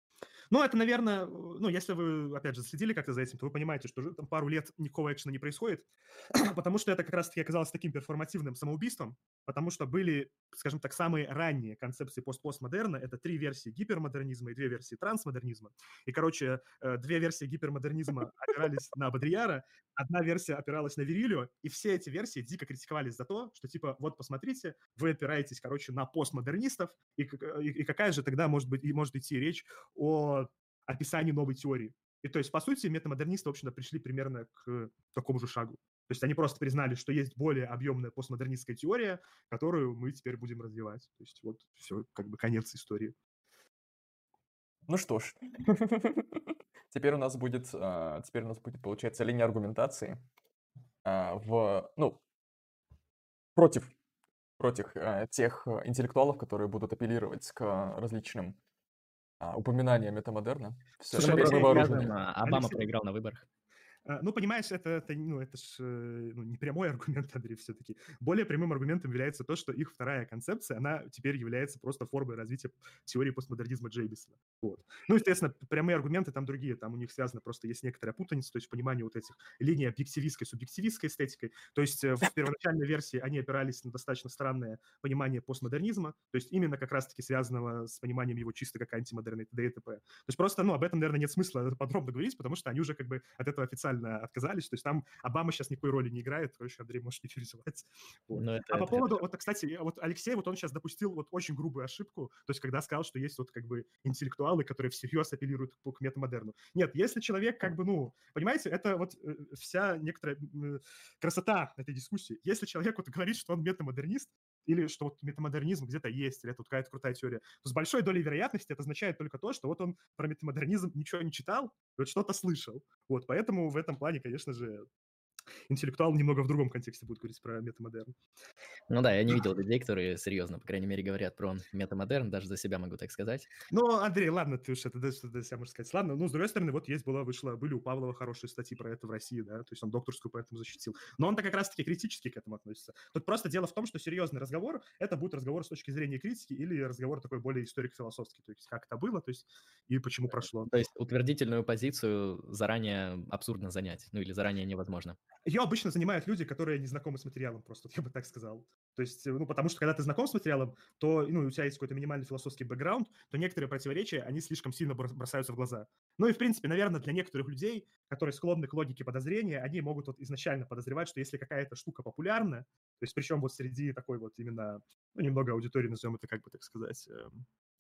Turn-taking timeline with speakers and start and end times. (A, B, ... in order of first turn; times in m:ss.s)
0:00.5-0:43.2 A
0:44.9-0:50.2 B
0:51.0-0:52.2 B
0:53.6-0:53.9 B
0:54.6-0:58.6 B
0:59.4-1:02.1 B
1:01.1-1:02.9 A
1:01.1-1:03.5 C
1:04.1-2:04.9 A
1:38.3-1:39.2 C
2:05.7-2:08.2 A
2:08.9-2:13.5 C
2:13.7-2:30.7 A
2:30.3-2:35.2 C
2:35.5-2:57.5 A